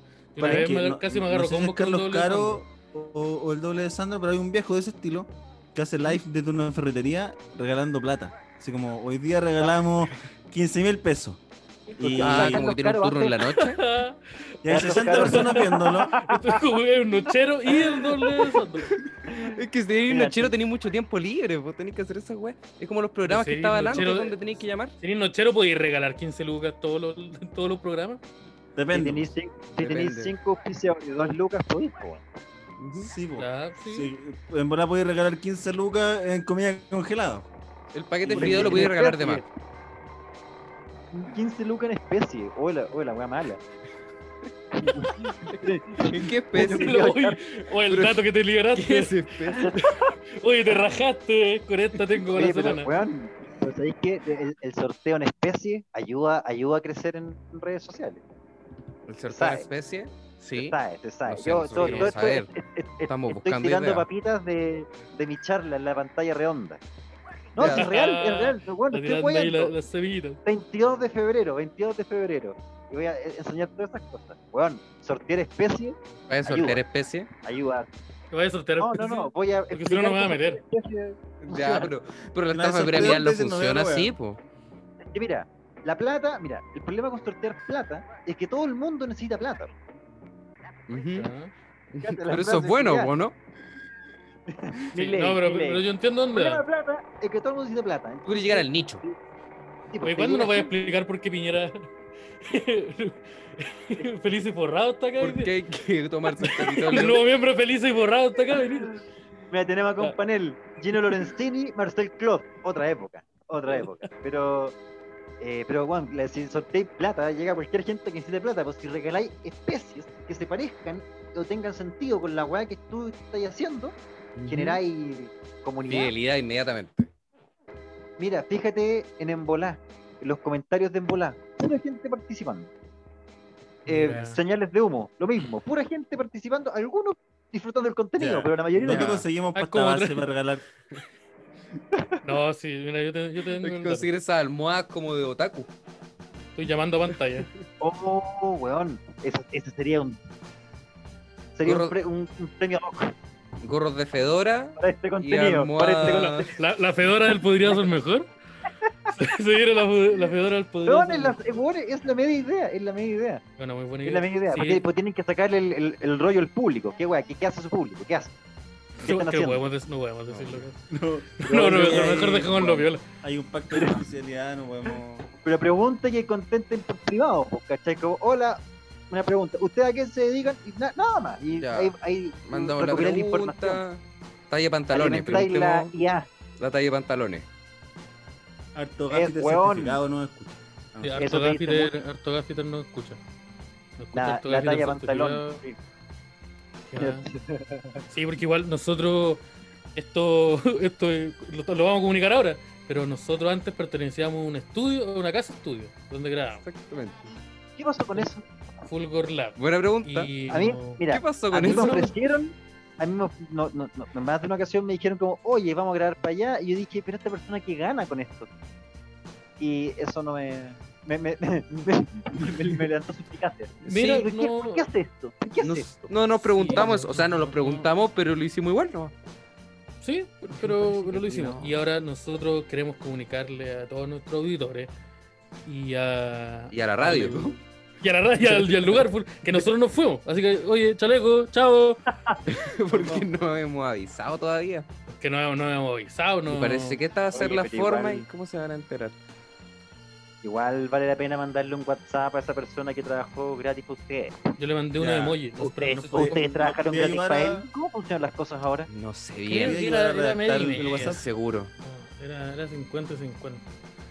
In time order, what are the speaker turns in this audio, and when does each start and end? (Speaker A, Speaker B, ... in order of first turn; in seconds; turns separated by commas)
Speaker A: 0.3-2.6, Speaker B: 0.4-11.4, Speaker B: 12.0-12.6, Speaker C: 12.0-13.4, Speaker D: 12.2-13.8, Speaker A: 13.5-18.9, Speaker B: 14.6-16.2, Speaker C: 14.7-16.6, Speaker D: 18.9-24.9, Speaker C: 19.3-20.6, Speaker A: 23.3-24.4, Speaker A: 25.0-28.2, Speaker B: 28.8-29.3, Speaker C: 28.9-32.3, Speaker D: 29.8-30.3, Speaker D: 32.8-33.1, Speaker B: 33.0-37.5, Speaker A: 33.4-34.1, Speaker D: 37.9-39.4, Speaker C: 38.2-39.5, Speaker B: 38.3-38.9, Speaker C: 41.1-43.6, Speaker C: 44.7-47.4, Speaker D: 45.0-47.1, Speaker A: 46.5-52.9, Speaker D: 47.9-48.2, Speaker D: 48.8-49.6, Speaker C: 49.5-50.1, Speaker C: 52.3-58.2, Speaker D: 59.1-62.5, Speaker C: 59.3-59.7, Speaker C: 60.5-66.8, Speaker A: 61.8-62.1, Speaker D: 63.1-64.1, Speaker C: 67.5-69.7, Speaker D: 67.6-67.9, Speaker A: 67.6-70.4, Speaker C: 70.4-76.8, Speaker D: 76.3-77.3, Speaker C: 77.4-77.9, Speaker A: 78.3-80.6, Speaker C: 78.8-81.9, Speaker D: 81.4-84.4, Speaker B: 82.5-84.1, Speaker C: 85.1-89.7, Speaker D: 90.9-91.3, Speaker A: 91.1-91.5, Speaker D: 91.9-93.4, Speaker C: 92.0-93.1, Speaker C: 94.5-95.8, Speaker A: 94.9-96.6, Speaker C: 96.3-99.2, Speaker D: 98.3-99.0, Speaker C: 99.9-100.7, Speaker A: 100.0-101.9, Speaker A: 102.4-105.5, Speaker D: 105.2-107.2, Speaker A: 106.3-108.9, Speaker C: 108.6-109.0, Speaker C: 109.5-114.8, Speaker A: 111.0-111.3, Speaker C: 115.4-124.0, Speaker D: 124.4-124.8, Speaker C: 124.5-126.1, Speaker D: 125.9-127.1, Speaker C: 128.2-132.7, Speaker A: 133.9-134.4, Speaker C: 133.9-139.2, Speaker B: 138.2-140.6, Speaker D: 138.9-139.2, Speaker A: 139.6-140.2, Speaker A: 142.2-144.1, Speaker D: 143.6-145.7, Speaker A: 146.6-147.5, Speaker C: 147.8-150.2, Speaker C: 151.6-153.1, Speaker D: 151.6-151.9, Speaker D: 153.6-156.5, Speaker C: 154.8-156.6, Speaker A: 156.1-158.3, Speaker C: 158.8-159.2, Speaker A: 159.1-161.4, Speaker C: 160.8-163.4, Speaker A: 163.6-164.8, Speaker C: 164.0-168.3, Speaker A: 169.0-170.8, Speaker C: 169.0-169.7, Speaker D: 170.3-170.6, Speaker B: 170.9-175.3, Speaker A: 171.4-173.0, Speaker C: 171.5-172.4, Speaker C: 173.7-174.0, Speaker C: 175.4-183.8, Speaker D: 181.6-181.9, Speaker D: 182.5-185.9, Speaker C: 184.9-186.3, Speaker D: 186.6-187.4, Speaker B: 188.8-191.3, Speaker C: 189.1-190.0, Speaker A: 191.0-193.2, Speaker C: 191.2-191.9, Speaker A: 194.0-195.6, Speaker C: 194.1-195.8, Speaker A: 196.9-197.2, Speaker C: 197.0-198.0, Speaker A: 198.1-199.4, Speaker A: 199.9-206.6, Speaker D: 206.6-207.3, Speaker C: 207.8-208.4, Speaker A: 208.9-211.0, Speaker D: 209.6-210.3, Speaker C: 210.5-218.5, Speaker D: 211.1-212.0, Speaker A: 211.6-212.1, Speaker C: 219.6-226.1, Speaker D: 223.8-224.2, Speaker A: 223.9-224.8, Speaker D: 225.6-229.1, Speaker A: 226.6-227.9, Speaker C: 226.6-226.9, Speaker A: 230.0-234.9, Speaker D: 230.6-231.7, Speaker A: 235.7-242.0, Speaker D: 236.7-237.6, Speaker D: 238.4-239.0, Speaker D: 242.4-244.9, Speaker C: 243.0-243.2, Speaker A: 245.1-247.0, Speaker D: 246.5-249.2, Speaker C: 247.3-248.3, Speaker C: 250.4-254.5, Speaker A: 254.6-256.6, Speaker B: 255.0-255.4, Speaker C: 255.6-258.9, Speaker B: 256.1-257.7, Speaker D: 258.9-259.8, Speaker A: 259.5-261.2, Speaker B: 259.6-261.2, Speaker D: 260.8-261.7, Speaker A: 261.8-263.6